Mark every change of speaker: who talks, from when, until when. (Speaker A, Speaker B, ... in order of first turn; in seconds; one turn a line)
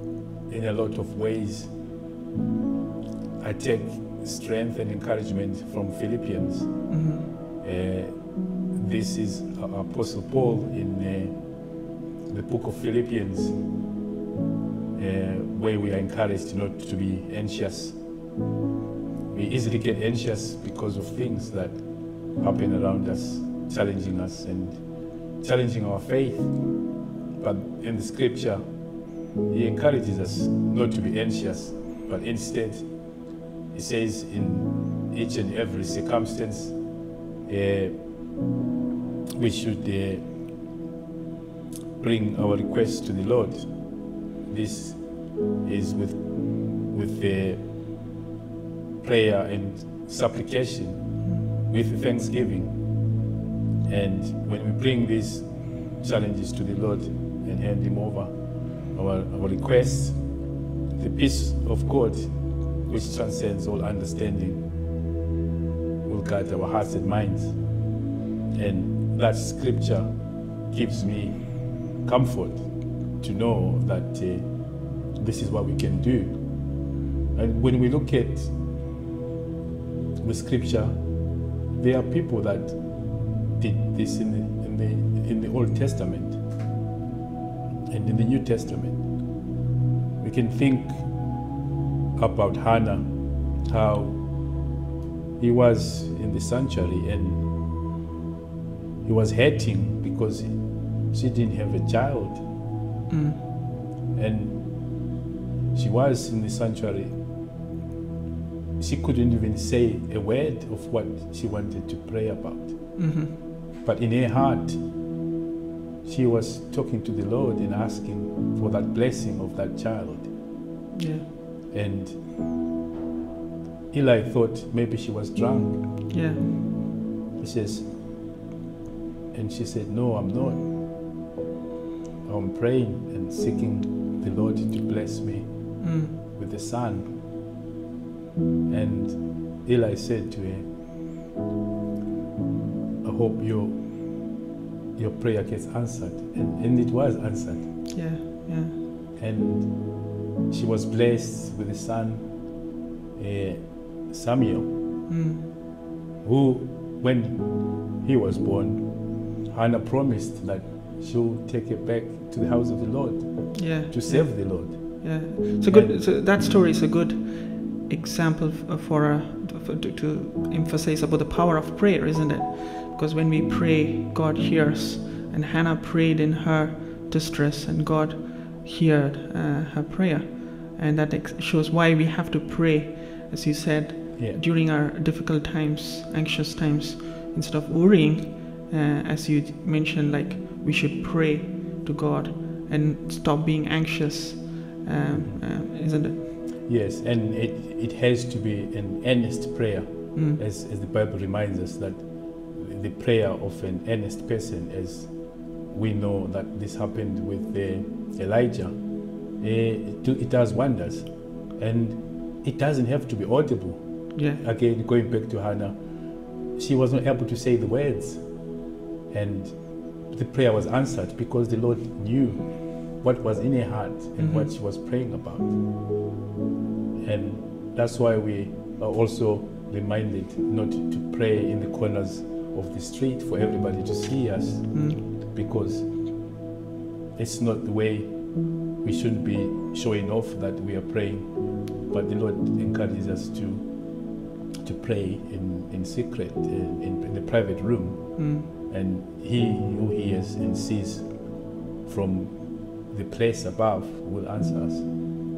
Speaker A: 0.5-1.8
Speaker A: 3.4-7.0
Speaker B: 6.9-7.3
Speaker A: 7.6-13.6
Speaker A: 14.9-18.2
Speaker A: 19.3-38.4
Speaker A: 39.4-40.3
Speaker A: 42.0-47.9
Speaker A: 49.0-53.1
Speaker A: 53.9-60.4
Speaker A: 60.9-64.7
Speaker A: 66.0-67.8
Speaker A: 68.5-78.6
Speaker A: 80.2-86.4
Speaker A: 87.9-89.3
Speaker A: 90.2-91.4
Speaker A: 92.2-94.6
Speaker A: 95.4-97.5
Speaker A: 99.0-102.5
Speaker B: 103.1-103.4
Speaker A: 104.1-105.0
Speaker A: 105.7-107.2
Speaker A: 108.8-113.1
Speaker B: 113.0-113.4
Speaker A: 113.8-115.1
Speaker A: 116.0-120.3
Speaker B: 120.9-121.3
Speaker A: 121.7-122.3
Speaker A: 123.9-125.9
Speaker B: 126.1-126.5
Speaker A: 127.4-128.0
Speaker A: 129.3-130.7
Speaker A: 132.2-137.2
Speaker B: 135.8-136.1
Speaker A: 138.7-140.7
Speaker A: 143.0-144.3
Speaker A: 144.9-147.9
Speaker B: 147.9-148.7
Speaker A: 149.2-154.7
Speaker B: 155.1-155.5
Speaker A: 156.2-166.0
Speaker B: 163.6-196.2
Speaker A: 195.1-195.4
Speaker A: 196.6-218.6
Speaker B: 200.2-200.4
Speaker B: 214.1-214.4
Speaker A: 219.1-225.8
Speaker B: 224.2-224.5
Speaker A: 227.0-236.1
Speaker B: 234.7-235.0
Speaker A: 237.2-254.9
Speaker B: 248.2-248.5